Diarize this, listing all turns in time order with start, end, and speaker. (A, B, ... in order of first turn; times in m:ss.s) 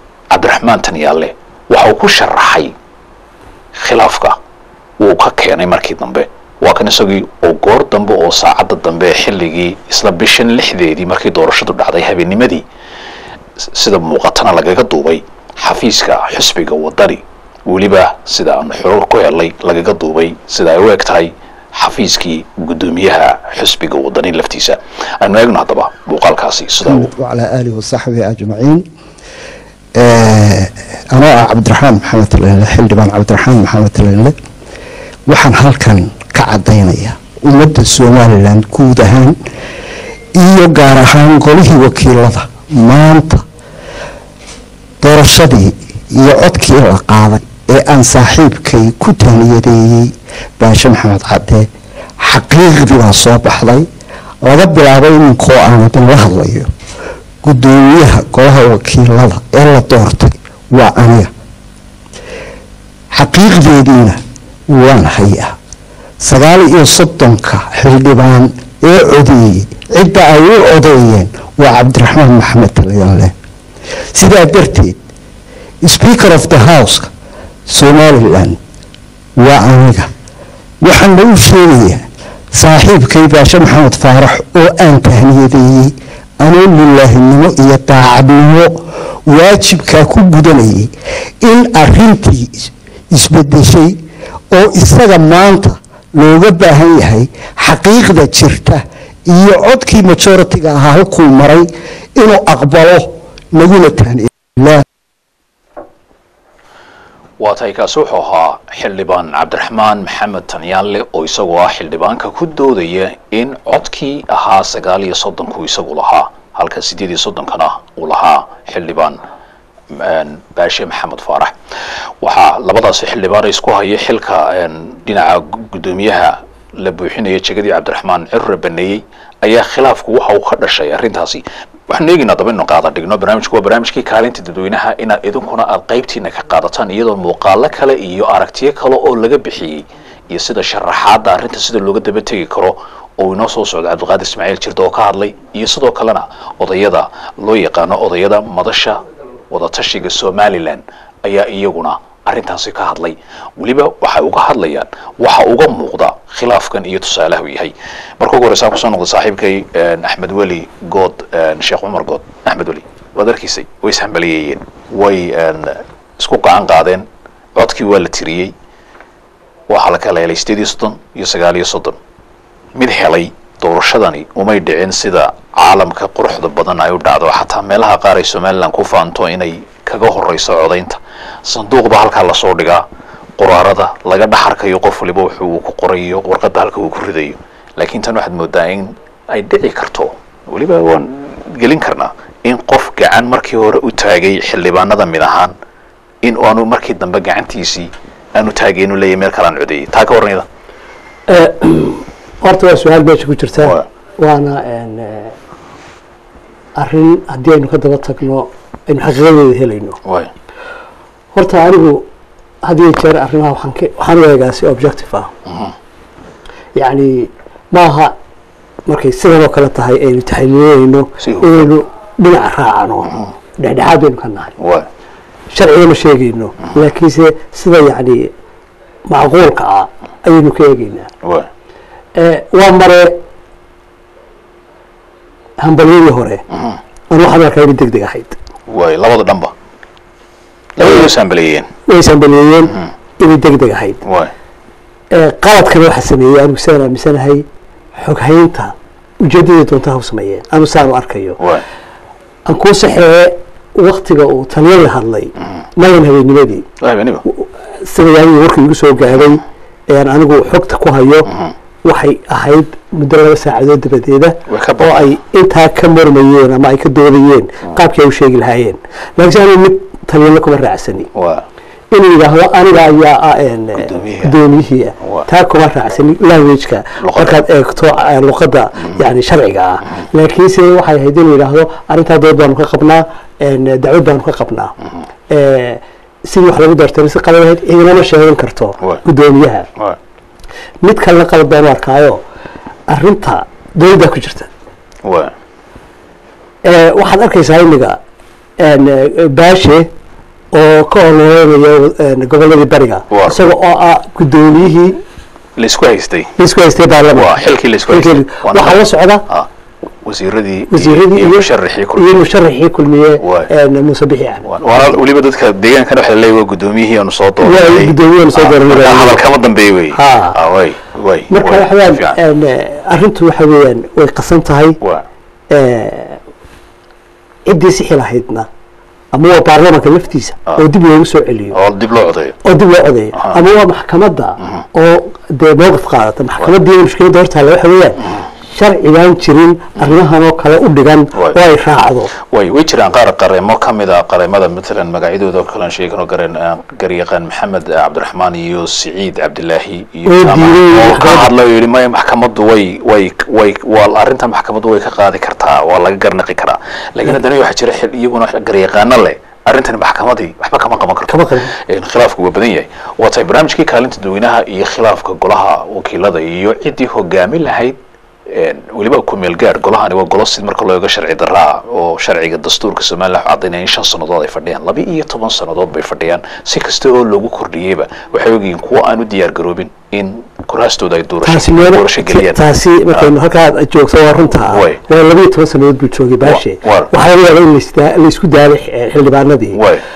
0:00.3-0:02.7 A
0:03.8-0:04.4 A
0:05.0-0:12.6 A
0:13.6-0:27.1 A
0:26.8-0:28.8 B
0:30.0-0:34.3 B
0:35.3-0:39.4 B
0:40.4-0:43.4 B
0:45.0-0:53.9 B
0:54.4-0:56.7 B
0:57.4-1:01.3 B
1:03.1-1:05.6 B
1:06.2-1:13.3 B
1:14.1-1:15.0 B
1:15.8-1:17.1 B
1:17.7-1:18.6 B
1:19.4-1:20.1 B
1:20.8-1:44.8 B
1:47.4-1:59.2 A
1:59.9-2:01.5 A
2:02.2-2:48.5 A
2:49.7-2:52.0 A
2:52.7-3:02.8 A
3:03.4-3:15.6 A
3:16.2-3:20.4 A
3:21.3-3:25.3 C
3:23.6-3:23.8 A
3:26.8-3:30.0 C
3:30.0-3:30.3 A
3:31.3-3:32.1 C
3:32.6-3:35.3 C
3:35.5-3:35.7 A
3:36.8-3:38.1 C
3:38.9-3:44.5 C
3:41.2-3:41.7 A
3:44.6-3:44.9 A
3:45.5-3:48.3 C
3:49.1-3:51.1 C
3:51.2-3:51.5 A
3:52.2-3:53.2 C
3:55.6-3:56.4 C
3:56.5-3:56.8 A
3:57.1-3:58.4 C
3:58.7-3:59.5 A
4:00.8-4:01.7 A
4:00.8-4:01.1 C
4:01.9-4:04.0 C
4:04.0-4:04.3 A
4:05.1-4:07.4 C
4:08.0-4:11.4 C
4:11.4-4:11.6 A
4:12.5-4:16.6 C
4:16.8-4:17.2 A
4:17.3-4:21.3 C
4:21.3-4:21.5 A
4:21.8-4:31.1 C
4:24.5-4:25.1 A
4:31.1-4:31.4 A
4:31.9-4:44.7 C
4:33.8-4:34.4 A
4:35.0-4:35.2 A
4:37.0-4:37.4 A
4:45.3-4:49.7 C
4:50.8-4:52.2 C
4:52.9-4:54.5 C
4:55.0-4:55.3 A
4:56.6-4:58.0 C
4:58.6-4:59.9 C
5:00.5-5:05.0 C
5:03.1-5:03.4 A
5:05.6-5:06.3 A
5:06.4-5:07.3 C
5:07.1-5:09.5 A
5:07.9-5:09.2 C
5:10.0-5:12.2 A
5:10.7-5:11.4 C
5:12.0-5:14.9 C
5:13.2-5:13.5 A
5:14.4-5:22.2 A
5:17.4-5:19.2 C
5:19.9-5:20.4 C
5:21.3-5:24.8 C
5:24.8-5:25.0 A
5:25.5-5:26.2 C
5:27.5-5:28.5 C
5:29.1-5:31.5 C
5:31.5-5:32.4 A
5:32.4-5:38.0 C
5:34.4-5:34.6 A
5:38.5-5:42.1 C
5:42.3-6:07.8 A
5:50.0-5:51.3 C
6:01.1-6:01.5 C
6:08.3-6:22.4 A
6:21.2-6:29.6 C
6:24.5-6:24.8 A
6:26.2-6:26.9 A
6:29.5-6:29.8 A